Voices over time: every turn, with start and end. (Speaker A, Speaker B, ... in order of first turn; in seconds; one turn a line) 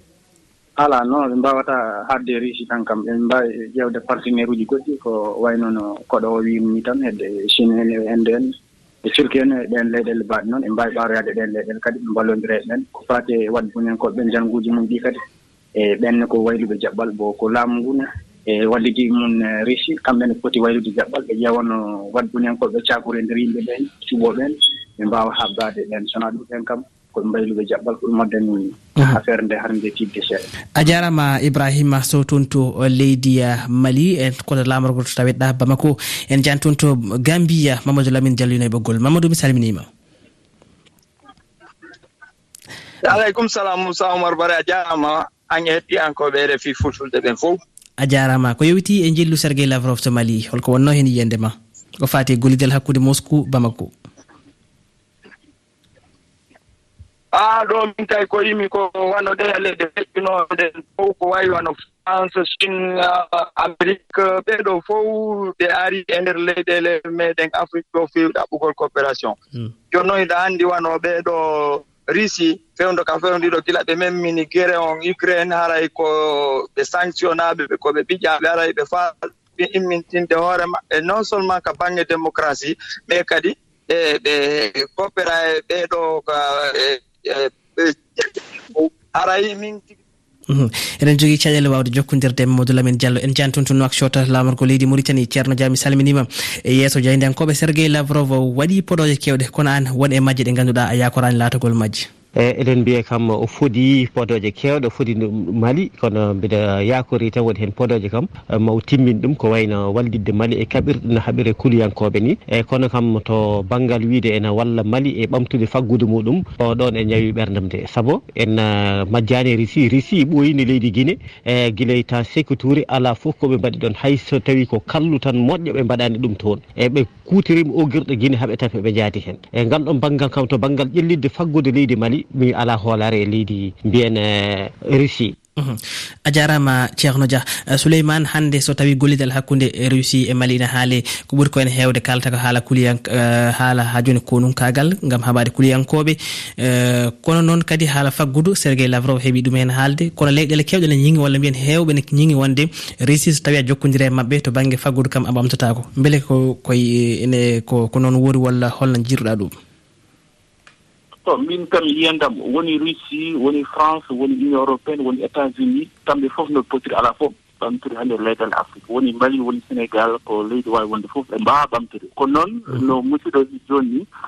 Speaker A: 0.8-8.5
Speaker A: 9.0-15.2
Speaker A: 15.8-30.4
Speaker B: 30.8-39.9
Speaker C: 43.0-47.6
Speaker B: 48.0-53.9
Speaker C: 57.3-69.4
Speaker C: 69.9-90.0
Speaker B: 90.5-102.1
Speaker D: 102.4-135.3
Speaker B: 135.6-159.6
Speaker E: 161.2-174.1